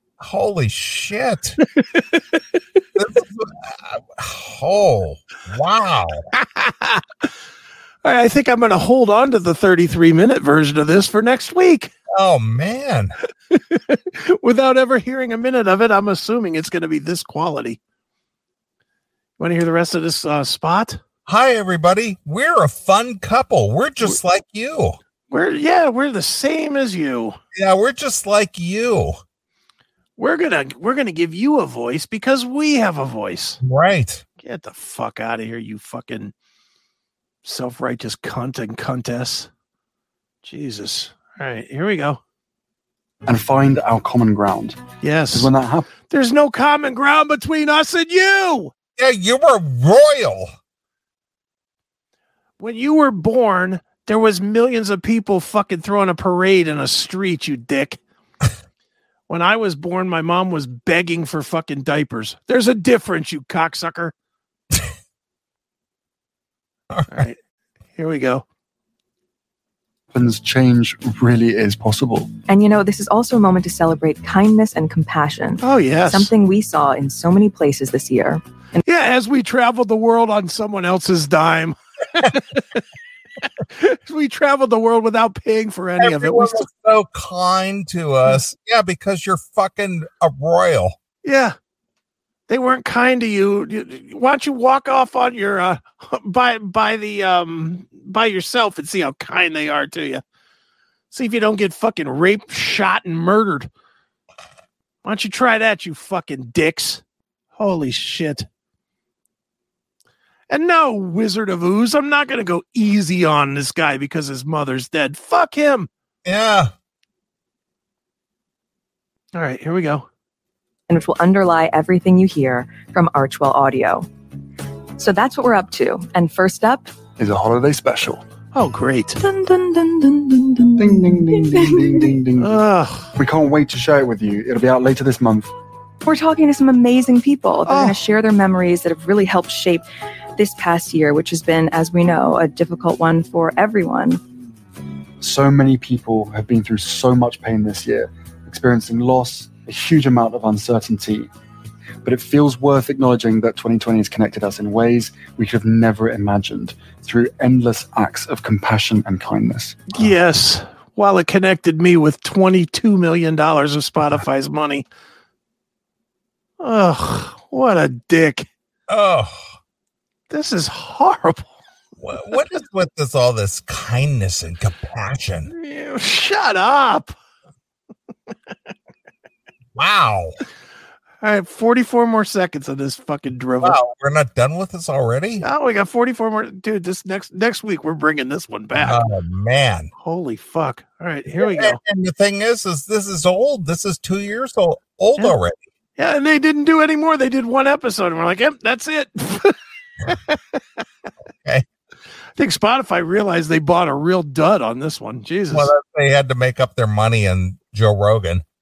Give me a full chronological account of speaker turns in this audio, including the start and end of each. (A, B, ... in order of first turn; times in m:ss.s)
0:00.2-0:01.6 A
0:01.8-0:02.2 B
0:03.0-0:06.3 A
0:06.3-0:07.2 B
0:08.0-0:11.9 B
0:12.1-0:13.2 A
0:13.5-0:17.8 B
0:19.4-0:21.0 B
0:21.3-0:25.0 A
0:25.3-0:27.4 B
0:27.5-0:29.2 A
0:30.2-0:33.6 B
0:33.6-0:34.2 A
0:34.4-0:36.3 B
0:37.4-0:39.5 B
0:40.4-0:42.2 B
0:43.3-0:44.8 C
0:45.0-0:45.5 B
0:45.3-0:45.9 C
0:46.0-0:48.7 B
0:49.0-0:50.5 A
0:52.6-0:58.0 B
0:59.3-1:04.1 B
1:06.9-1:07.3 A
1:07.1-1:07.4 B
1:08.0-1:08.4 B
1:10.1-1:12.3 C
1:12.5-1:18.8 D
1:15.6-1:16.3 B
1:18.8-1:22.8 B
1:23.6-1:26.7 B
1:26.0-1:31.0 A
1:31.2-1:31.6 B
1:32.5-1:40.2 B
1:41.1-1:43.7 B
1:45.0-1:47.0 B
1:47.6-1:48.5 B
1:50.5-1:55.9 B
1:56.2-1:56.7 A
1:59.4-2:00.1 B
2:00.9-2:04.1 D
2:05.0-2:06.9 D
2:07.2-2:08.2 C
2:08.6-2:09.2 B
2:09.2-2:12.1 D
2:10.8-2:12.6 C
2:12.4-2:13.1 B
2:13.2-2:15.5 C
2:16.0-2:19.9 D
2:17.7-2:18.0 B
2:20.4-2:24.2 D
2:25.2-2:31.3 C
2:32.0-2:40.1 C
2:39.9-2:44.8 B
2:46.6-2:48.5 B
2:48.9-2:49.4 A
2:50.3-2:51.6 B
2:52.0-2:55.5 A
2:55.5-2:57.2 B
2:59.8-3:00.4 A
3:01.2-3:03.8 B
3:03.6-3:05.5 A
3:05.4-3:09.0 B
3:08.8-3:09.9 A
3:10.0-3:11.8 B
3:11.4-3:15.6 A
3:16.0-3:20.8 B
3:22.4-3:25.7 B
3:25.5-3:28.4 A